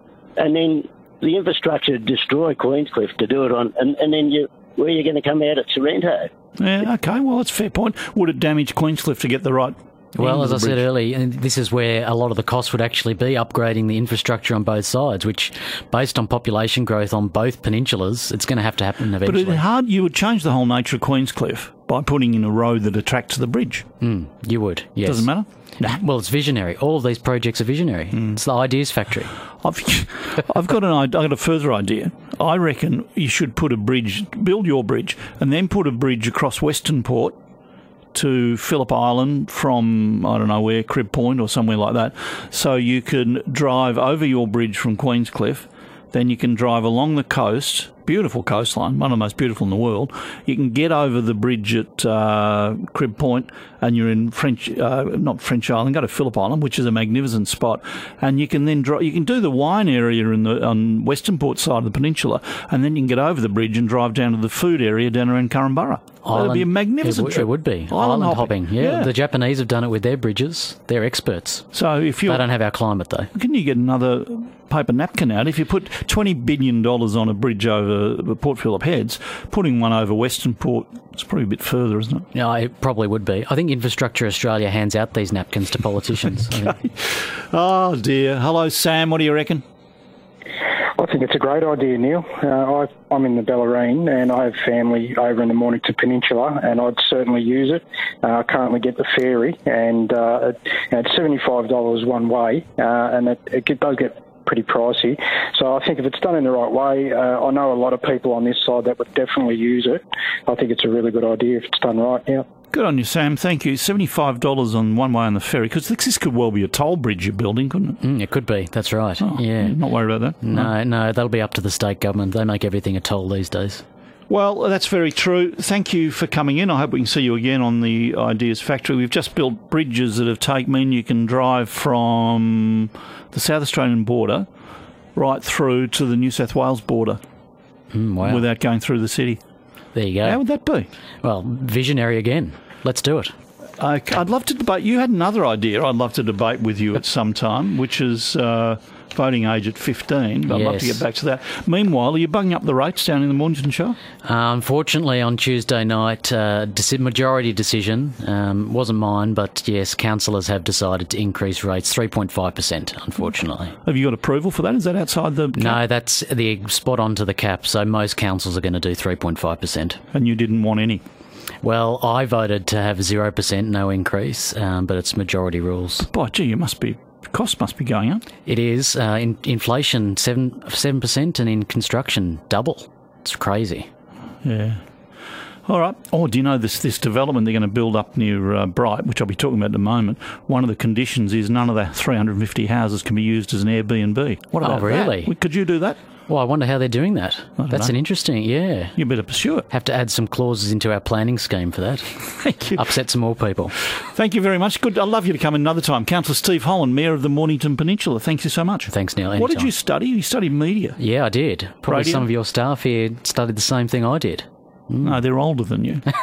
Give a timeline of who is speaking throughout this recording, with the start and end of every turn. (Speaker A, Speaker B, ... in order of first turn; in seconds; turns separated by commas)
Speaker A: 0.4-6.3, Speaker B: 6.6-10.8, Speaker C: 10.2-19.6, Speaker B: 19.2-23.9, Speaker C: 24.0-29.3, Speaker B: 25.1-26.0, Speaker B: 29.6-37.4, Speaker B: 38.1-69.1, Speaker C: 66.2-71.7, Speaker B: 71.7-72.4, Speaker C: 72.3-73.3, Speaker B: 73.3-82.3, Speaker C: 82.3-86.8, Speaker B: 86.8-89.6, Speaker D: 91.0-112.5, Speaker B: 112.7-118.0, Speaker C: 118.0-119.8, Speaker B: 119.2-120.7, Speaker C: 120.4-123.8, Speaker B: 124.3-134.5, Speaker B: 135.2-137.2, Speaker C: 137.9-138.4, Speaker B: 138.2-139.4, Speaker C: 139.9-140.4, Speaker B: 140.2-140.9, Speaker C: 141.2-143.3, Speaker B: 143.8-154.0, Speaker C: 150.5-151.0, Speaker C: 154.2-163.8, Speaker B: 163.8-165.8, Speaker C: 165.6-170.0, Speaker B: 170.1-171.0, Speaker C: 171.6-176.1, Speaker B: 176.0-178.2, Speaker C: 178.5-183.9, Speaker B: 184.4-184.8, Speaker B: 185.7-196.0, Speaker C: 194.6-195.3, Speaker C: 196.3-199.1, Speaker B: 197.6-197.9, Speaker B: 199.0-199.7, Speaker C: 199.7-203.8, Speaker B: 202.4-202.8, Speaker B: 203.9-211.0, Speaker C: 208.9-209.7, Speaker C: 211.0-215.2, Speaker B: 211.9-212.3, Speaker B: 215.0-216.1